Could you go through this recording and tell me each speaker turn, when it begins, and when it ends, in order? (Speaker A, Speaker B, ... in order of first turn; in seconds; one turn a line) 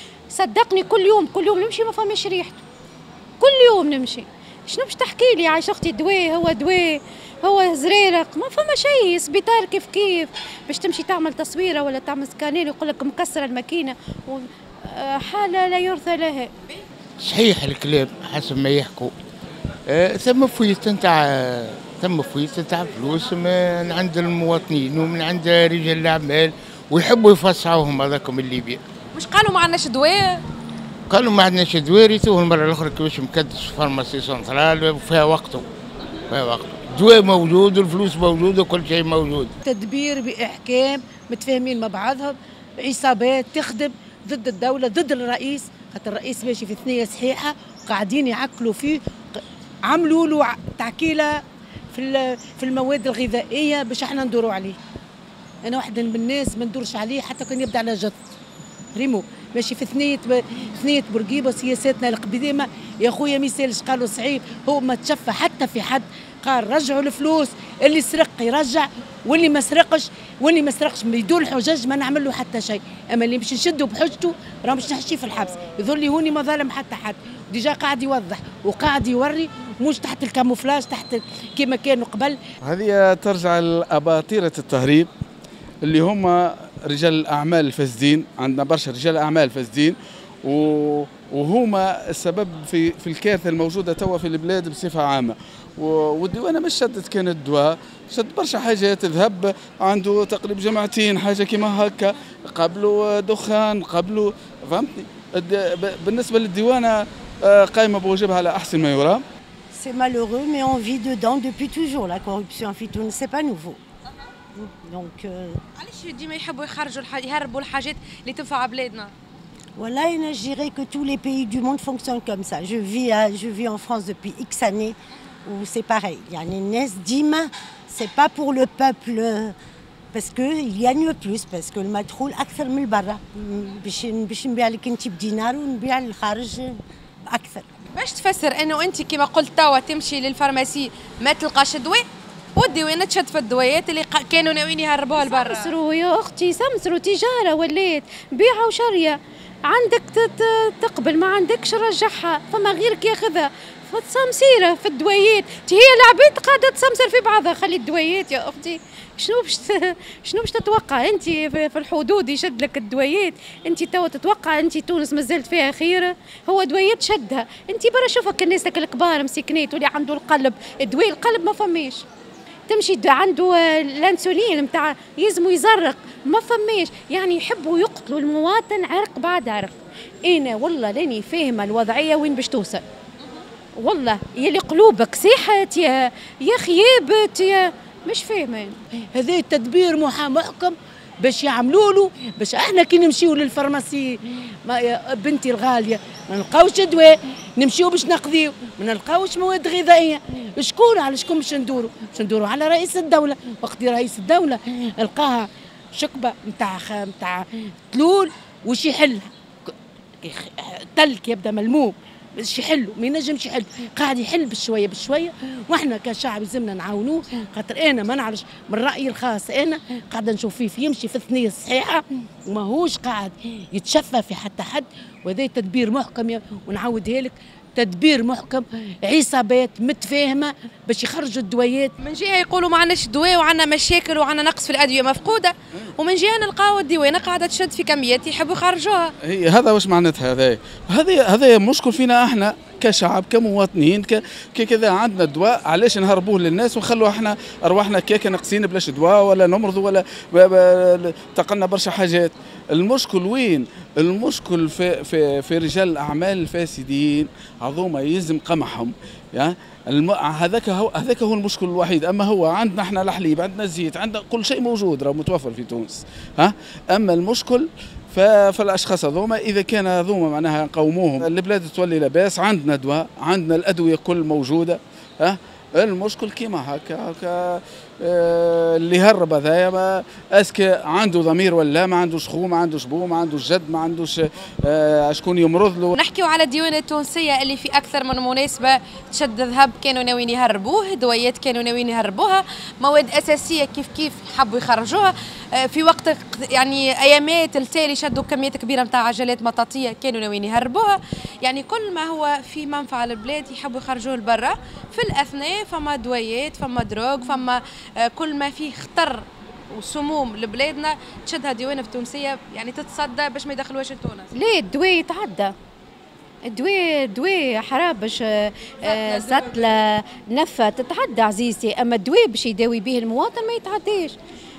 Speaker A: 0.3-2.6
Speaker A: 3.4-16.5
Speaker B: 17.2-19.1
Speaker B: 19.9-28.8
Speaker C: 29.1-30.4
Speaker B: 31.1-35.7
Speaker B: 36.3-39.5
Speaker D: 39.6-49.0
Speaker D: 49.9-51.4
Speaker D: 51.9-54.8
Speaker D: 55.6-58.2
Speaker D: 59.0-82.4
Speaker E: 82.6-85.1
Speaker E: 85.8-109.2
Speaker F: 109.7-113.8
Speaker F: 114.6-115.6
Speaker C: 115.8-119.1
Speaker F: 119.8-129.6
Speaker F: 130.1-137.7
Speaker C: 137.9-142.0
Speaker C: 142.6-145.7
Speaker A: 145.2-172.0
Speaker A: 172.7-182.8
Speaker A: 183.8-188.8
Speaker D: 189.1-209.3
Speaker D: 210.2-231.9
Speaker C: 232.0-239.1
Speaker E: 239.2-286.0
Speaker C: 285.9-314.3
Speaker A: 314.4-315.5
Speaker A: 316.5-324.2
Speaker C: 318.9-319.6